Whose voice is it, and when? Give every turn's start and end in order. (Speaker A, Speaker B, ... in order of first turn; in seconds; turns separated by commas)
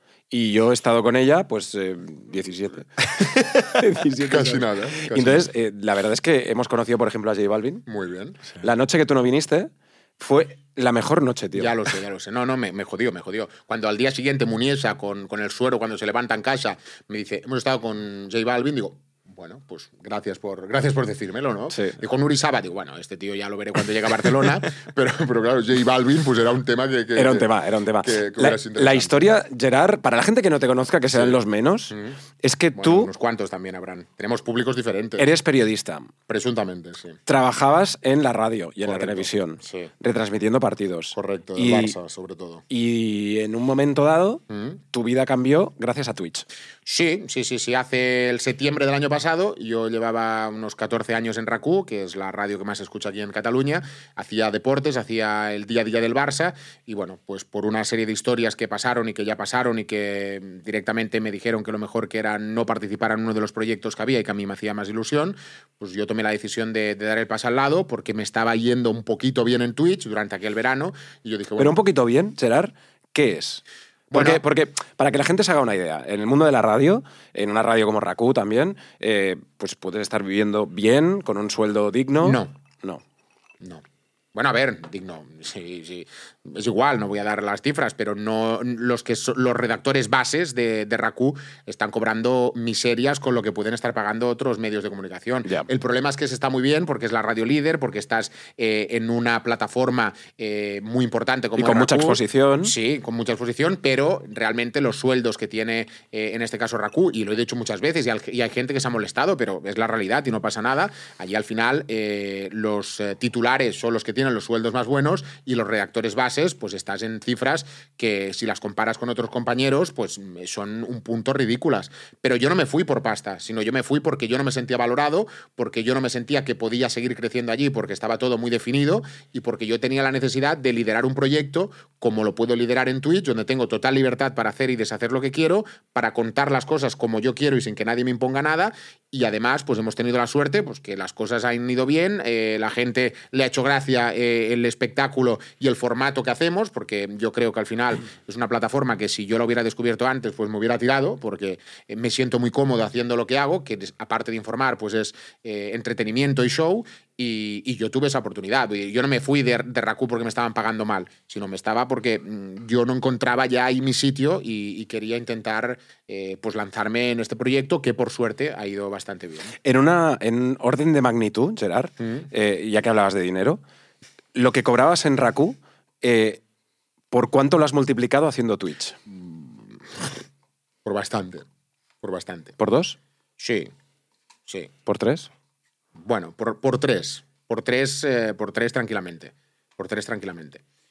Speaker A: 0.3-7.8, Speaker B: 4.2-5.5, Speaker B: 7.9-8.4, Speaker A: 8.6-11.9, Speaker B: 11.6-27.5, Speaker A: 27.2-33.1, Speaker B: 28.0-29.2, Speaker B: 31.1-31.4, Speaker B: 31.9-32.2, Speaker B: 32.8-35.3, Speaker A: 35.2-36.1, Speaker B: 36.3-37.2, Speaker A: 37.3-42.0, Speaker B: 38.8-39.9, Speaker B: 41.1-42.6, Speaker A: 42.7-44.4, Speaker B: 44.5-44.8, Speaker A: 44.9-46.5, Speaker B: 46.9-71.8, Speaker A: 71.6-83.0, Speaker B: 74.1-74.4, Speaker B: 82.2-82.5, Speaker B: 84.3-169.5, Speaker A: 101.6-102.7, Speaker A: 169.6-173.6, Speaker B: 172.0-172.3, Speaker A: 174.3-176.4, Speaker A: 177.1-179.0, Speaker B: 179.1-180.1, Speaker B: 180.8-181.5, Speaker B: 182.0-182.6, Speaker A: 182.6-183.0, Speaker B: 183.4-183.7, Speaker A: 184.9-185.3, Speaker B: 186.0-190.6